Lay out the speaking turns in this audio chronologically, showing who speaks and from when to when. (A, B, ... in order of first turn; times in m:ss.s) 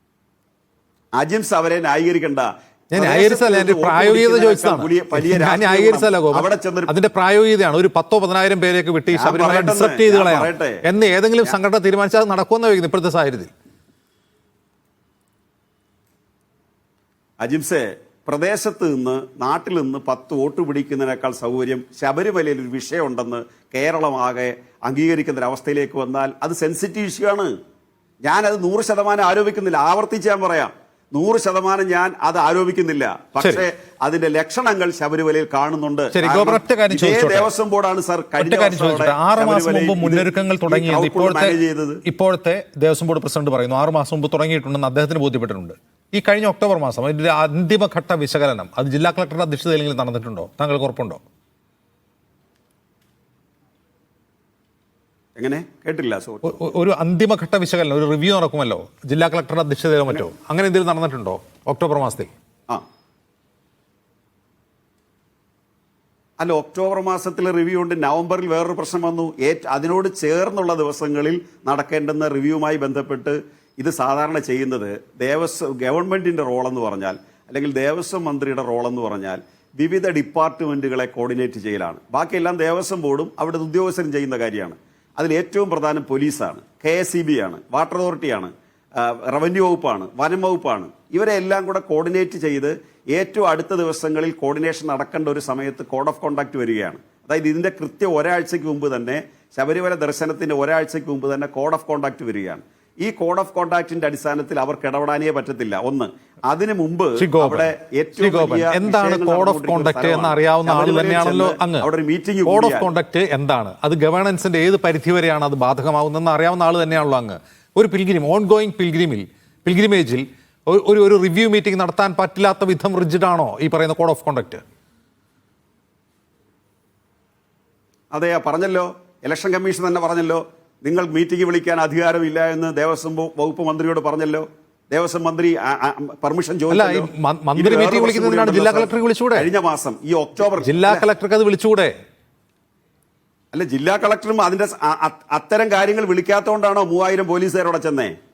0:01.2-0:06.9 A
0:02.9-0:13.5 B
0:09.1-0:10.8 A
0:17.4-0:27.5 A
0:28.2-0:42.0 A
0:33.4-0:33.6 B
0:36.1-0:37.5 B
0:38.4-0:51.2 B
0:55.4-0:56.5 A
0:56.4-1:02.3 B
1:06.4-1:52.9 A
1:47.2-1:51.9 B
1:52.4-2:04.6 B
2:08.1-2:21.0 A
2:16.7-2:19.5 B
2:20.5-2:21.9 B
2:23.5-2:28.1 A